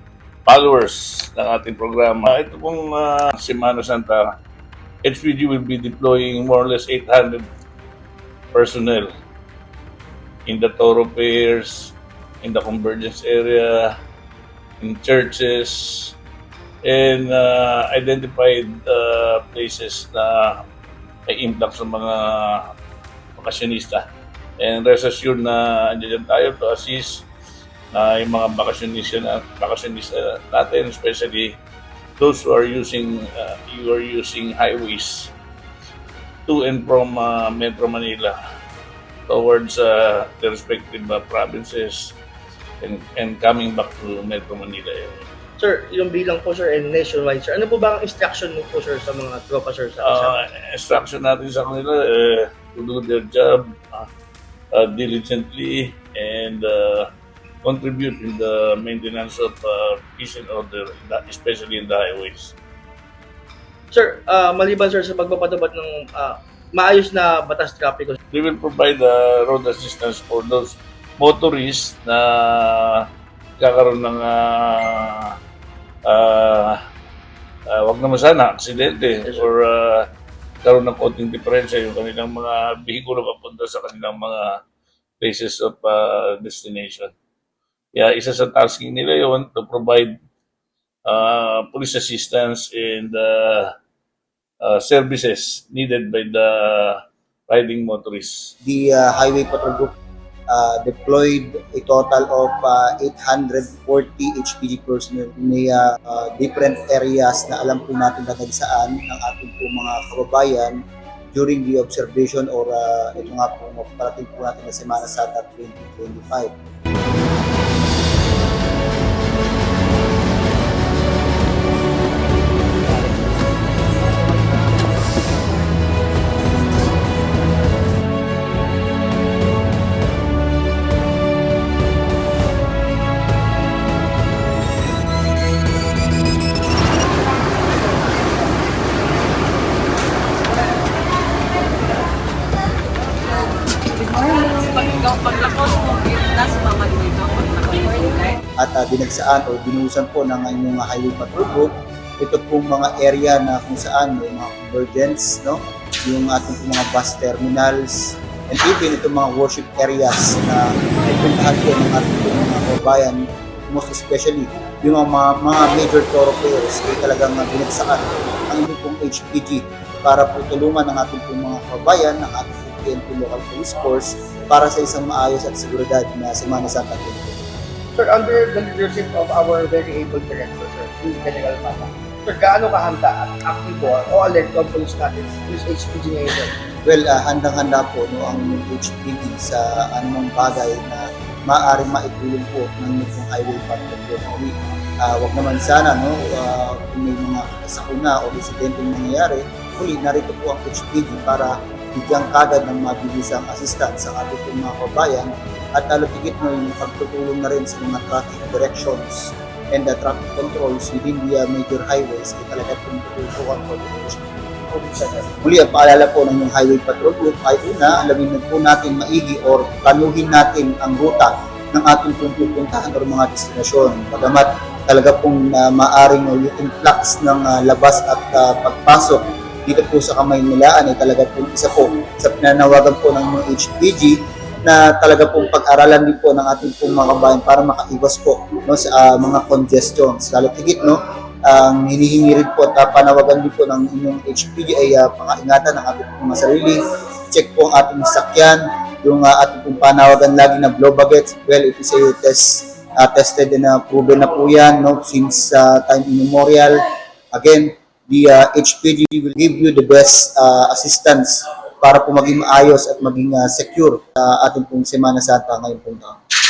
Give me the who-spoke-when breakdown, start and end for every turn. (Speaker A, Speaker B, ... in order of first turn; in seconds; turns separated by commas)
Speaker A: 0.5-4.4, Speaker A: 5.0-7.5, Speaker A: 8.5-9.1, Speaker A: 10.5-13.9, Speaker A: 14.8-16.2, Speaker A: 16.8-20.6, Speaker A: 21.3-22.7, Speaker A: 23.4-24.1, Speaker A: 24.6-27.3, Speaker A: 27.9-31.6, Speaker A: 32.2-35.3, Speaker A: 36.5-38.3, Speaker A: 39.3-42.2, Speaker A: 42.8-45.2, Speaker B: 45.6-50.3, Speaker A: 50.0-54.1, Speaker A: 54.7-57.1, Speaker A: 57.6-62.5, Speaker B: 63.9-68.2, Speaker A: 68.3-73.1, Speaker A: 73.6-75.3, Speaker A: 76.0-76.8, Speaker A: 77.7-80.1, Speaker A: 80.6-84.6, Speaker A: 85.2-87.1, Speaker A: 87.9-90.2, Speaker A: 91.1-93.7, Speaker A: 94.6-98.5, Speaker C: 98.6-99.9, Speaker C: 100.5-116.5, Speaker C: 148.6-177.6, Speaker B: 177.9-186.5, Speaker C: 186.8-214.3, Speaker B: 214.7-215.3, Speaker C: 215.4-256.8, Speaker C: 257.3-266.2